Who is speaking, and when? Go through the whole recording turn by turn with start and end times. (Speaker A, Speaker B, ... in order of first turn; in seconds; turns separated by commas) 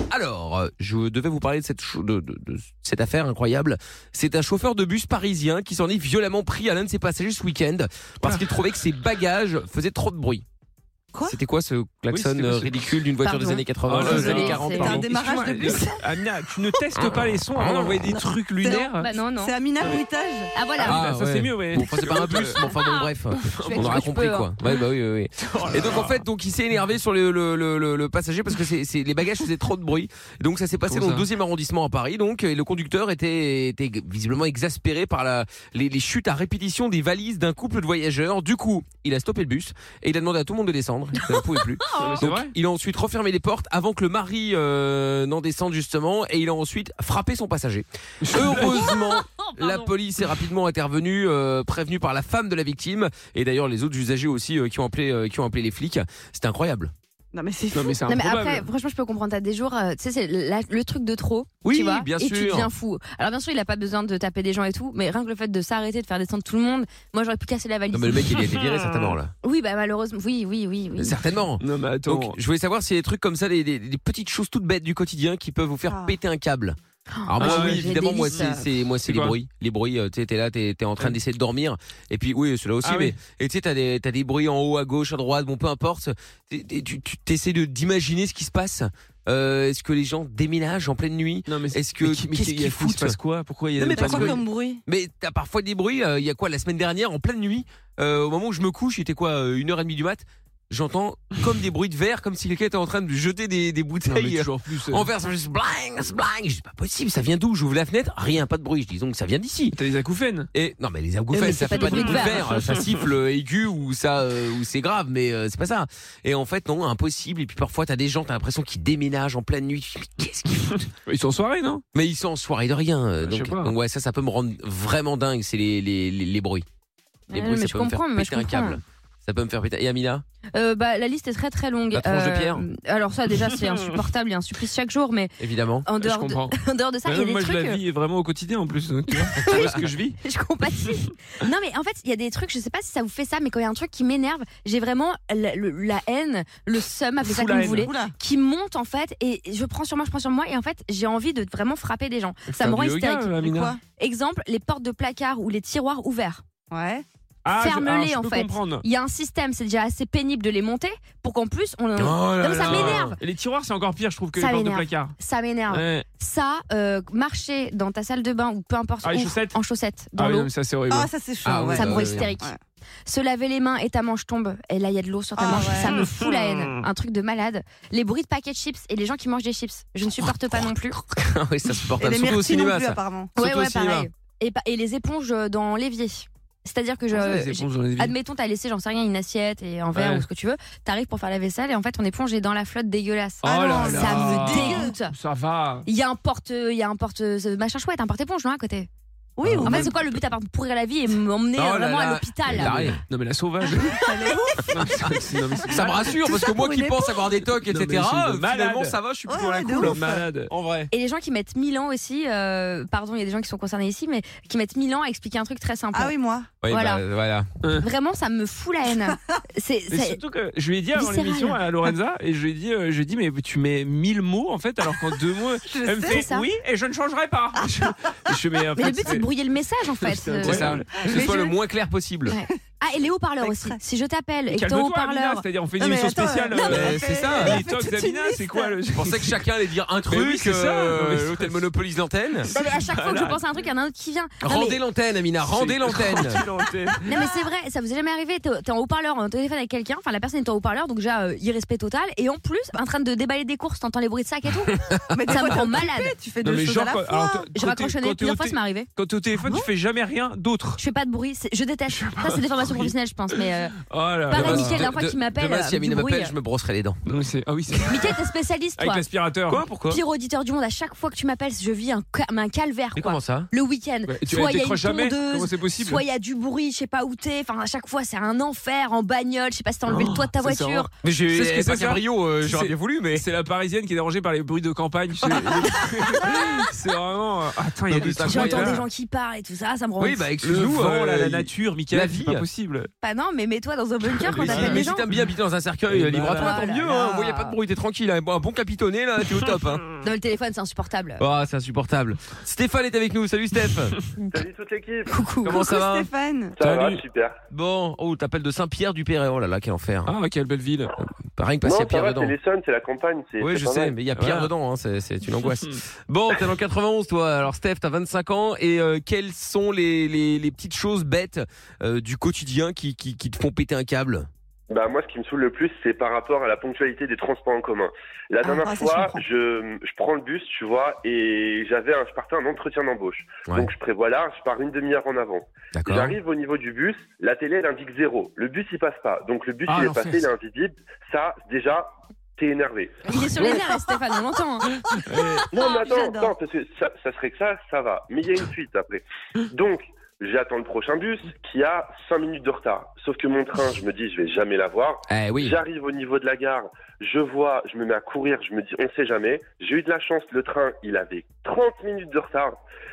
Speaker A: 0.1-10.4, Speaker A: 11.3-15.1, Speaker B: 12.1-12.8, Speaker C: 13.2-15.0, Speaker B: 13.9-19.1, Speaker D: 14.2-16.1, Speaker A: 17.0-18.1, Speaker D: 18.6-20.5, Speaker C: 19.0-19.6, Speaker C: 20.5-21.0, Speaker B: 20.8-22.6, Speaker A: 20.8-56.9, Speaker C: 22.0-24.5, Speaker B: 23.6-24.1, Speaker B: 25.5-26.2, Speaker B: 30.9-31.3, Speaker B: 42.0-42.5, Speaker B: 48.2-49.0, Speaker D: 57.3-58.0, Speaker B: 57.7-58.6, Speaker C: 58.0-68.3, Speaker A: 61.6-62.7, Speaker A: 67.9-69.3, Speaker C: 69.4-71.1, Speaker A: 71.0-93.2, Speaker B: 71.6-72.4, Speaker C: 77.1-78.6, Speaker B: 77.4-78.4, Speaker B: 79.0-79.4, Speaker B: 82.8-83.1, Speaker B: 91.5-94.4, Speaker A: 93.8-109.8, Speaker D: 93.9-94.8, Speaker B: 104.1-105.1, Speaker B: 109.8-110.5, Speaker A: 110.5-120.8, Speaker C: 111.3-112.4, Speaker B: 121.1-121.8, Speaker A: 121.9-126.7, Speaker B: 123.2-123.7, Speaker C: 127.3-128.8, Speaker A: 127.3-130.2, Speaker C: 130.5-137.8, Speaker A: 131.9-132.7, Speaker A: 135.4-136.0, Speaker B: 136.0-136.5, Speaker B: 137.1-140.2, Speaker C: 139.4-156.4, Speaker A: 139.4-139.8, Speaker B: 147.2-147.9, Speaker D: 147.8-148.1, Speaker B: 152.5-153.8, Speaker D: 153.4-153.8, Speaker D: 156.7-157.0, Speaker B: 157.4-158.8, Speaker C: 157.6-163.2, Speaker A: 161.9-163.1, Speaker B: 162.6-165.1, Speaker C: 164.4-170.5, Speaker B: 165.7-166.1, Speaker B: 169.0-169.6, Speaker B: 170.1-171.7, Speaker D: 170.9-172.6, Speaker A: 171.4-172.3, Speaker C: 171.7-172.5, Speaker C: 173.1-181.0, Speaker D: 175.4-176.1, Speaker A: 181.1-184.1, Speaker D: 182.0-183.3, Speaker C: 183.4-195.1, Speaker B: 187.1-188.1, Speaker B: 189.9-190.2, Speaker D: 193.4-194.9, Speaker B: 193.4-195.9, Speaker C: 195.9-198.9, Speaker D: 199.4-200.0, Speaker A: 199.4-199.9, Speaker B: 199.5-199.9, Speaker C: 199.6-202.9, Speaker A: 201.6-203.0, Speaker B: 202.6-204.0, Speaker D: 203.8-207.1, Speaker B: 204.7-206.1, Speaker A: 205.7-209.0, Speaker B: 207.7-210.5, Speaker D: 209.3-210.2, Speaker A: 209.8-210.9, Speaker C: 210.9-216.1, Speaker D: 215.9-216.5, Speaker A: 216.6-217.5, Speaker C: 216.7-217.0, Speaker B: 217.6-217.9, Speaker C: 217.8-220.2, Speaker B: 219.9-229.2, Speaker C: 220.9-221.6, Speaker D: 225.7-226.3, Speaker C: 226.1-226.5, Speaker C: 228.8-230.7, Speaker B: 230.0-231.2, Speaker A: 230.4-232.3, Speaker D: 231.0-231.5, Speaker C: 232.3-235.4, Speaker D: 233.4-233.8, Speaker B: 234.5-239.4, Speaker D: 235.8-238.6, Speaker A: 236.7-237.6, Speaker A: 238.9-242.5, Speaker B: 240.1-241.6, Speaker C: 242.5-244.8, Speaker B: 242.6-243.4, Speaker A: 244.4-246.4, Speaker B: 245.4-247.0, Speaker C: 247.1-256.1, Speaker D: 255.1-257.5, Speaker B: 256.4-260.8, Speaker C: 257.5-258.9, Speaker C: 260.8-263.8, Speaker B: 261.9-263.4, Speaker B: 263.9-264.9, Speaker C: 264.3-266.3, Speaker A: 264.3-267.0, Speaker B: 267.1-268.2, Speaker C: 267.9-269.1, Speaker B: 268.8-270.0, Speaker A: 269.5-269.9, Speaker C: 269.8-280.9, Speaker A: 272.9-273.5, Speaker B: 274.1-276.0, Speaker B: 279.9-288.8, Speaker A: 281.0-283.2, Speaker A: 287.9-288.8, Speaker C: 288.0-290.2, Speaker A: 290.0-292.4, Speaker B: 290.4-292.9, Speaker C: 293.0-295.1, Speaker A: 294.2-299.8, Speaker B: 294.3-295.2, Speaker B: 295.9-296.6, Speaker C: 296.3-297.5, Speaker C: 300.0-301.2, Speaker A: 301.2-304.0, Speaker E: 304.3-305.1, Speaker C: 305.1-305.6, Speaker A: 305.4-306.1, Speaker D: 305.5-306.6, Speaker E: 306.6-307.4, Speaker B: 306.6-307.0, Speaker A: 307.5-310.1, Speaker B: 310.1-310.9, Speaker A: 311.4-312.4, Speaker E: 311.6-313.9, Speaker A: 313.4-324.3, Speaker B: 314.1-314.5, Speaker B: 315.4-315.8, Speaker E: 324.7-343.0, Speaker D: 328.4-329.2, Speaker A: 335.7-336.2, Speaker B: 339.7-340.2, Speaker C: 343.1-344.6, Speaker D: 343.3-344.0, Speaker D: 344.9-346.3, Speaker B: 345.0-345.5, Speaker E: 345.5-362.5, Speaker A: 355.1-355.6